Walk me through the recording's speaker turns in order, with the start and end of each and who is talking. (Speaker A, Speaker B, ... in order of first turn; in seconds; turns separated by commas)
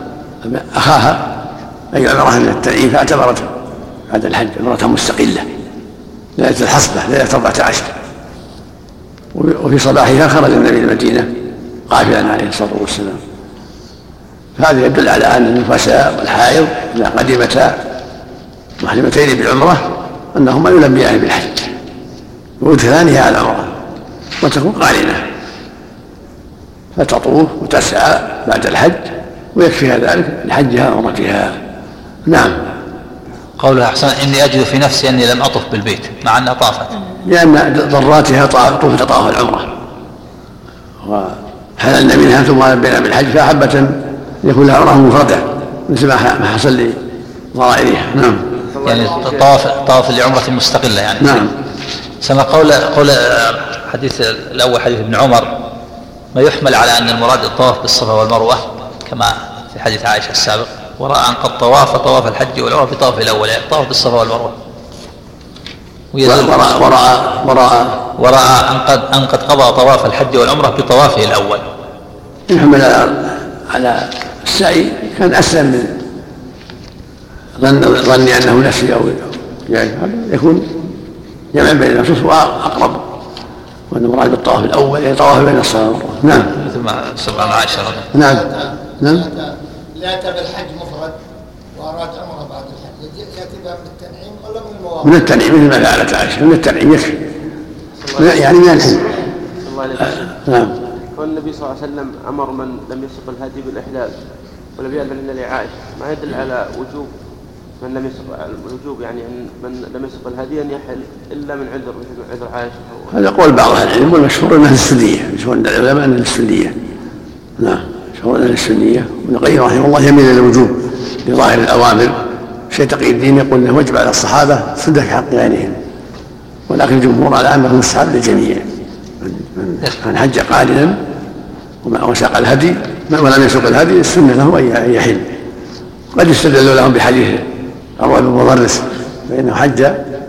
Speaker A: 0.4-1.4, Speaker A: 1.9-3.5, Speaker A: 4.1-5.5, Speaker A: 6.3-8.0, Speaker A: 9.3-11.3, Speaker A: 11.9-13.2, Speaker A: 14.6-17.8, Speaker A: 18.8-21.7, Speaker A: 22.6-23.8, Speaker A: 24.4-25.2, Speaker A: 26.9-31.6, Speaker A: 32.2-32.7, Speaker B: 33.6-37.0, Speaker A: 37.2-39.7, Speaker A: 41.0-47.0, Speaker A: 47.5-48.4, Speaker C: 48.7-49.5, Speaker B: 48.8-51.5, Speaker A: 51.2-51.5, Speaker B: 52.2-55.5, Speaker B: 56.3-64.5, Speaker B: 66.1-66.6, Speaker A: 66.2-68.0, Speaker B: 68.2-71.6, Speaker A: 72.5-76.0, Speaker A: 77.6-80.7, Speaker A: 81.5-83.1, Speaker A: 83.9-86.5, Speaker B: 86.5-88.1, Speaker A: 88.1-88.5, Speaker D: 88.1-91.2, Speaker A: 89.0-89.3, Speaker D: 91.7-95.1, Speaker A: 95.0-97.2, Speaker C: 98.0-98.4, Speaker A: 98.2-99.0, Speaker C: 99.6-100.3, Speaker A: 100.4-100.8, Speaker C: 101.1-104.1, Speaker C: 104.8-107.1, Speaker C: 107.8-113.2, Speaker A: 113.1-116.8, Speaker A: 117.6-122.2, Speaker A: 122.7-125.8, Speaker A: 126.7-128.7, Speaker A: 129.2-131.0, Speaker A: 131.8-135.3, Speaker A: 136.1-137.5, Speaker A: 138.0-140.0